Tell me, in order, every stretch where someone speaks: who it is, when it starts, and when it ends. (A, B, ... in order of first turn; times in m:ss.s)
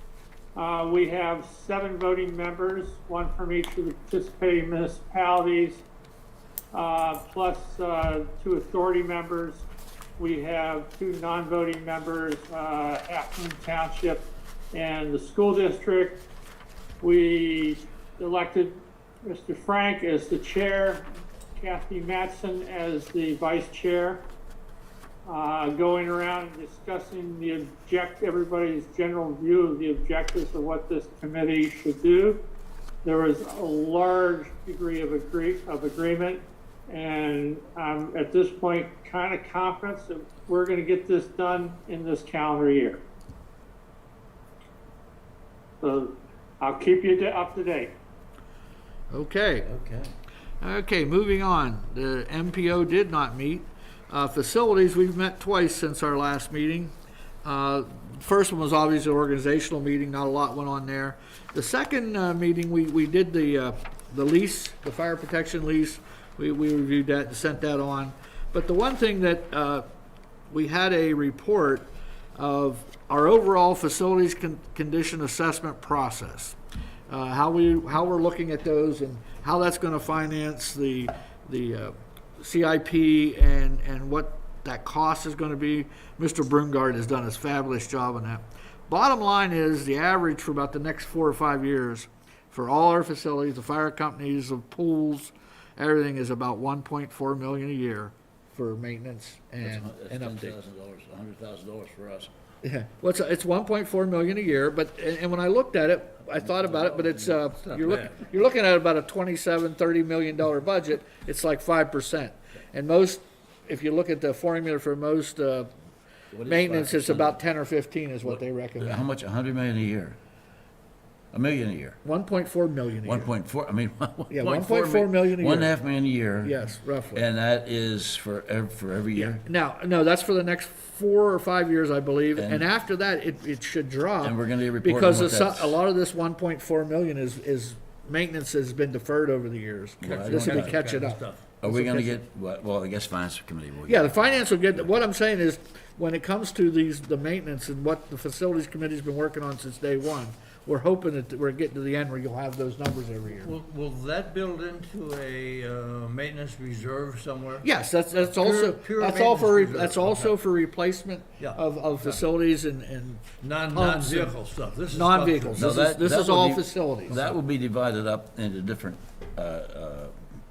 0:00.5-0:05.8 A
0:06.7-0:09.7 A
0:10.2-0:16.2 A
0:17.0-0:24.2 A
0:25.2-0:32.4 A
0:33.0-0:43.0 A
0:45.8-0:47.9 A
0:49.1-0:49.7 B
0:49.6-0:50.1 C
0:50.6-1:09.8 B
1:10.5-1:16.6 B
1:17.1-1:40.5 B
1:39.6-1:42.3 C
1:42.6-1:55.7 B
1:46.4-1:48.1 C
1:56.3-1:57.4 C
1:56.4-1:59.0 B
1:58.2-2:00.2 C
2:01.3-2:02.0 C
2:02.0-2:03.3 B
2:03.0-2:06.6 C
2:04.3-2:05.7 B
2:06.4-2:07.2 B
2:07.1-2:09.4 C
2:09.2-2:22.1 B
2:12.3-2:12.7 C
2:14.2-2:15.8 C
2:20.0-2:20.8 C
2:20.0-2:21.4 D
2:21.6-2:24.5 C
2:23.8-2:33.5 B
2:33.3-2:40.4 D
2:37.6-2:47.2 B
2:41.4-2:42.2 D
2:43.4-2:45.8 D
2:45.6-2:50.1 C